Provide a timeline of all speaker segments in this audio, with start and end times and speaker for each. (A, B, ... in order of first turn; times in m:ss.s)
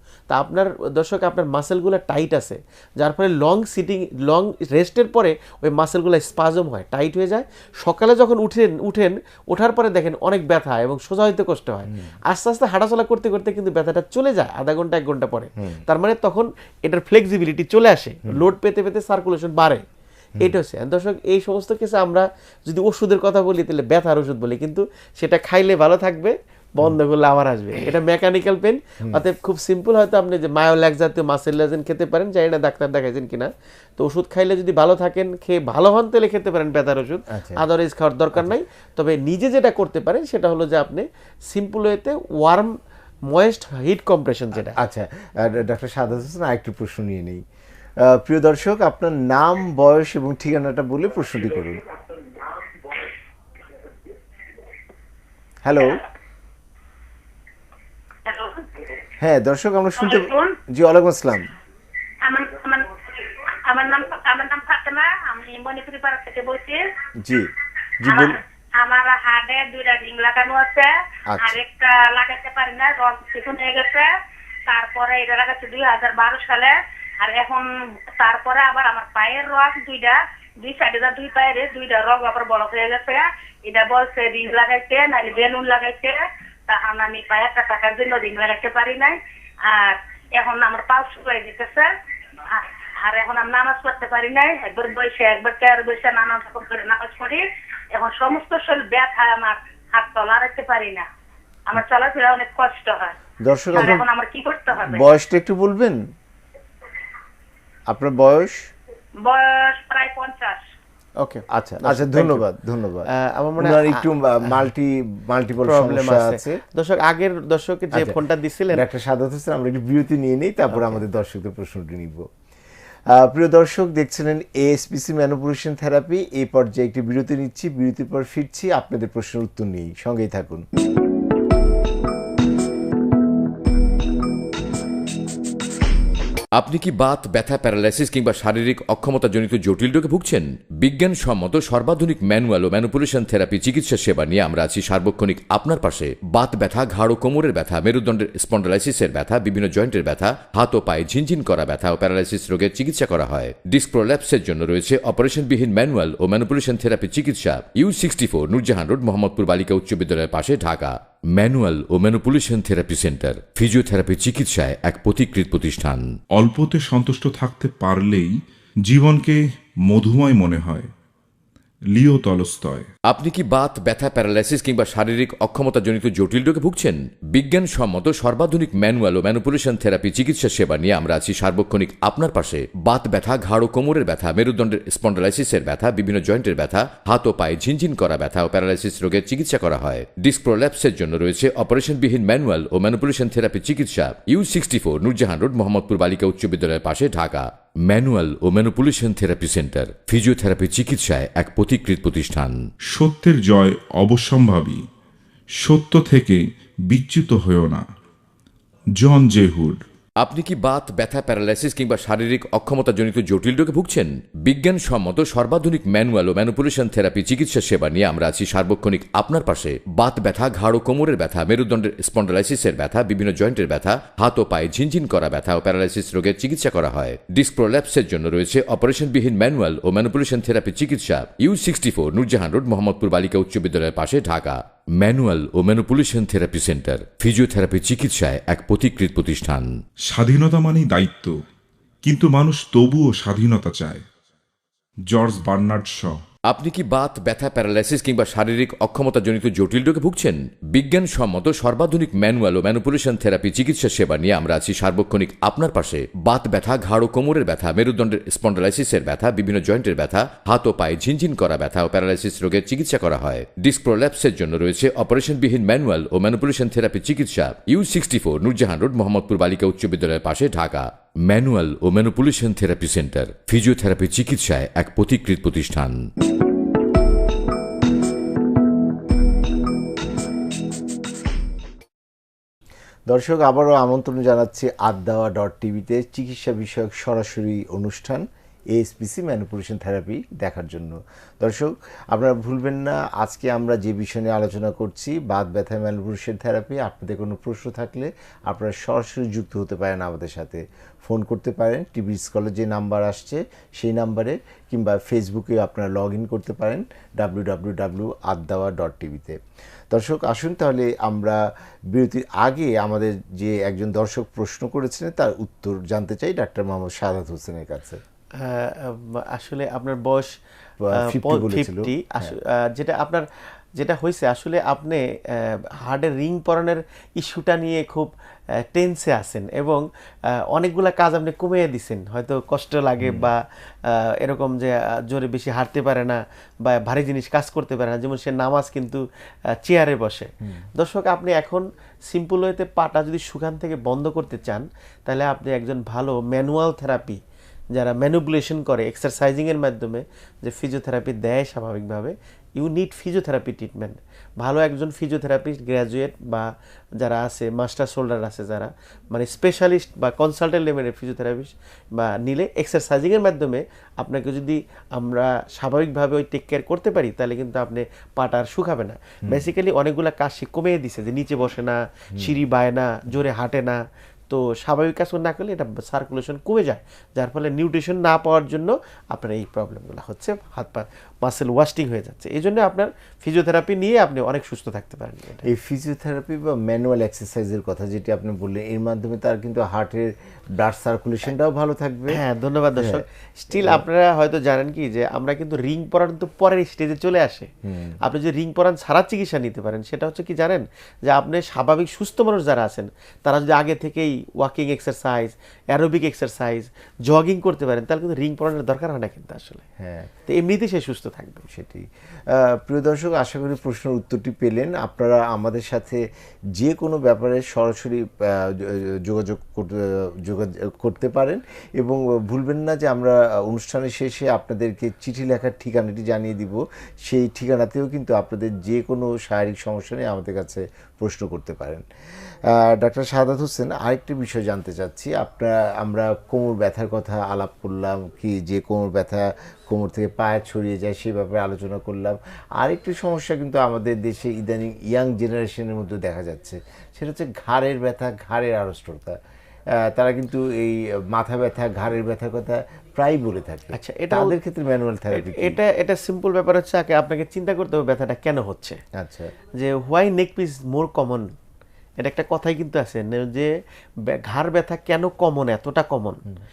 0:00.3-0:19.8 A
0:11.9-0:12.2 B
0:15.6-0:15.8 B
0:20.4-0:42.8 A
0:37.3-0:37.6 B
0:43.3-0:44.8 A
0:44.6-0:47.4 B
0:48.0-0:51.8 B
0:55.6-0:56.0 B
0:58.2-0:58.8 C
0:59.2-1:01.5 B
1:00.0-1:00.6 C
1:02.2-1:06.8 C
1:07.2-1:08.4 B
1:08.0-1:14.1 C
1:11.3-1:11.6 B
1:14.7-1:31.9 C
1:32.5-1:41.0 C
1:41.7-1:43.1 C
1:43.4-1:44.0 B
1:43.7-1:45.0 C
1:44.7-1:46.0 B
1:47.9-1:48.7 B
1:49.2-1:50.6 C
1:51.2-1:52.4 A
1:51.5-1:56.6 B
1:53.1-1:54.6 A
1:55.6-1:58.8 A
1:57.9-1:58.2 B
1:58.7-2:02.3 B
2:00.7-2:01.0 A
2:03.1-2:10.6 B
2:16.6-2:46.1 D
2:46.3-2:50.9 E
2:51.9-2:52.9 E
2:53.1-3:22.6 D
3:22.9-3:24.8 E
3:25.6-3:27.8 E
3:29.0-3:29.8 E
3:30.2-3:59.7 D
4:00.1-4:01.3 E
4:02.0-4:04.0 E
4:05.1-4:06.2 E
4:06.5-4:36.0 D
4:43.1-5:09.4 B
5:09.9-5:18.0 B
5:18.4-5:20.3 A
5:20.8-5:22.3 B
5:20.9-5:23.2 A
5:23.8-5:28.1 A
5:28.6-5:39.0 A
5:33.0-5:33.3 B
5:39.6-5:47.2 A
5:40.4-5:40.7 B
5:47.7-6:25.4 A
6:25.4-6:32.2 B
6:32.1-6:37.5 A
6:32.8-6:33.8 B
6:37.6-6:38.0 B
6:38.0-6:49.6 A
6:49.8-6:50.1 B
6:50.3-6:51.4 A
6:51.5-6:56.0 B
6:56.5-7:11.8 B
7:12.5-7:29.2 B
7:29.8-7:35.6 B
7:33.7-7:34.3 A
7:35.1-7:38.8 A
7:38.9-7:39.3 B
7:39.6-7:41.3 A
7:42.0-7:43.5 A
7:44.0-7:46.2 A